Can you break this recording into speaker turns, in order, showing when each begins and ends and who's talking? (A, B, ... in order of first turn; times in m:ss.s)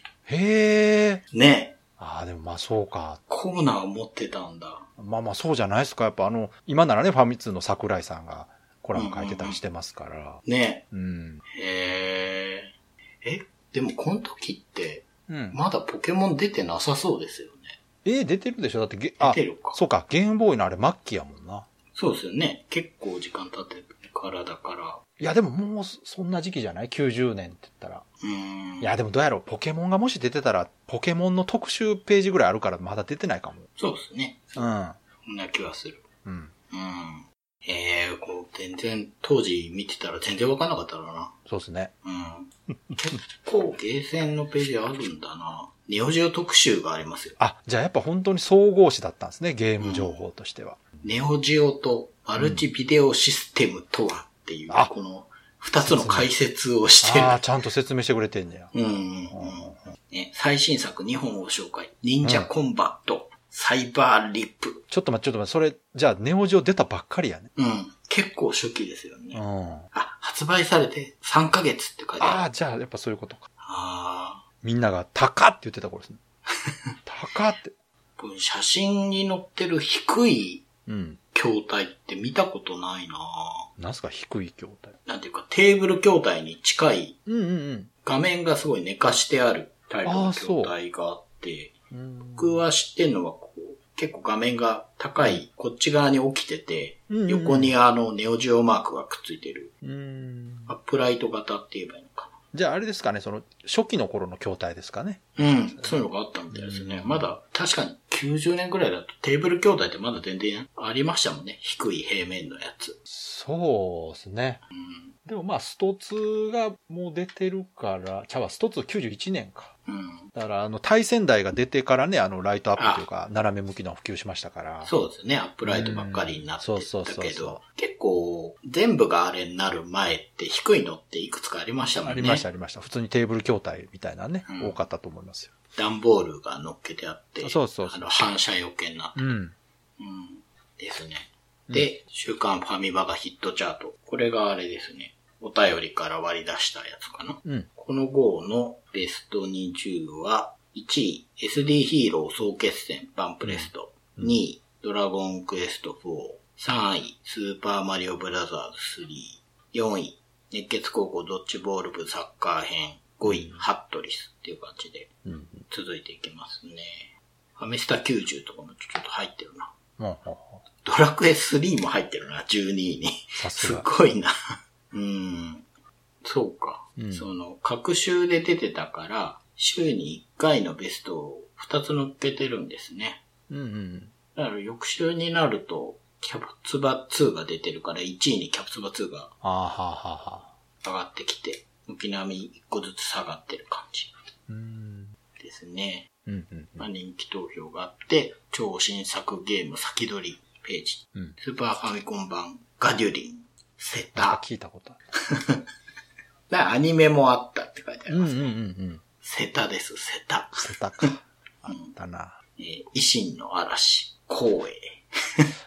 0:00.3-0:01.2 A
0:01.3-0:01.8 B
0:02.0-0:03.2 A
0:03.3-0:04.9 B
0:05.0-0:11.4 A
0:08.9-0:09.6 B
0:10.4-0:10.8 B
0:11.5-0:17.8 B
0:15.3-0:15.6 A
0:18.0-0:21.7 A
0:19.2-0:19.8 B
0:21.9-0:25.0 B
0:25.2-0:28.0 A
0:28.2-0:28.9 B
0:28.8-0:33.7 A
0:33.8-0:34.7 B
0:34.6-0:35.0 A
0:35.2-0:36.0 B
0:36.2-0:36.5 A
0:36.7-0:41.4 B
0:41.5-0:41.9 A
0:42.0-0:47.4 B
0:47.4-0:50.8 A
0:49.8-0:50.2 B
0:51.0-0:57.4 B
0:52.4-0:52.6 A
0:55.8-0:56.3 A
0:57.0-0:58.7 A
0:58.7-1:04.8 B
0:59.3-0:59.9 A
1:02.2-1:02.5 A
1:04.9-1:07.5 A
1:07.6-1:12.4 B
1:09.3-1:09.9 A
1:12.2-1:13.4 A
1:13.6-1:14.4 B
1:14.6-1:16.2 A
1:17.0-1:17.7 A
1:18.2-1:20.6 B
1:20.9-1:21.2 A
1:21.3-1:23.7 B
1:23.8-1:24.9 A
1:25.0-1:27.2 B
1:27.2-1:27.9 A
1:28.0-1:31.8 B
1:30.0-1:30.7 A
1:31.9-1:32.6 A
1:32.4-1:39.7 B
1:37.1-1:37.8 A
1:39.8-1:40.7 A
1:40.7-1:42.3 B
1:42.5-1:47.3 A
1:45.4-1:53.0 B
1:53.1-1:54.6 A
1:54.7-1:55.1 B
1:55.2-1:59.7 A
1:59.9-2:00.3 B
2:00.3-2:04.9 A
2:02.8-2:03.0 B
2:04.8-2:12.4 B
2:05.6-2:07.6 A
2:12.0-2:15.5 A
2:14.4-2:14.8 B
2:15.7-2:19.4 B
2:17.4-2:18.0 A
2:19.2-2:19.5 A
2:20.0-2:45.1 B
2:33.4-2:34.3 A
2:43.2-2:43.6 A
2:45.2-2:45.6 A
2:45.7-2:49.7 B
2:50.0-2:50.6 A
2:50.8-2:54.3 B
2:53.4-2:53.8 A
2:54.9-2:55.6 B
2:56.2-3:03.2 B
2:57.0-2:57.2 A
3:03.5-3:04.1 A
3:04.3-3:09.3 B
3:09.4-3:10.5 A
3:10.8-3:14.1 B
3:14.5-3:15.1 A
3:15.4-3:16.1 B
3:16.3-3:16.8 A
3:16.8-3:24.4 B
3:24.1-3:25.0 A
3:25.3-3:25.6 B
3:26.5-3:28.6 B
3:28.1-3:29.0 A
3:29.2-3:31.1 B
3:30.6-3:32.4 A
3:32.6-3:35.5 B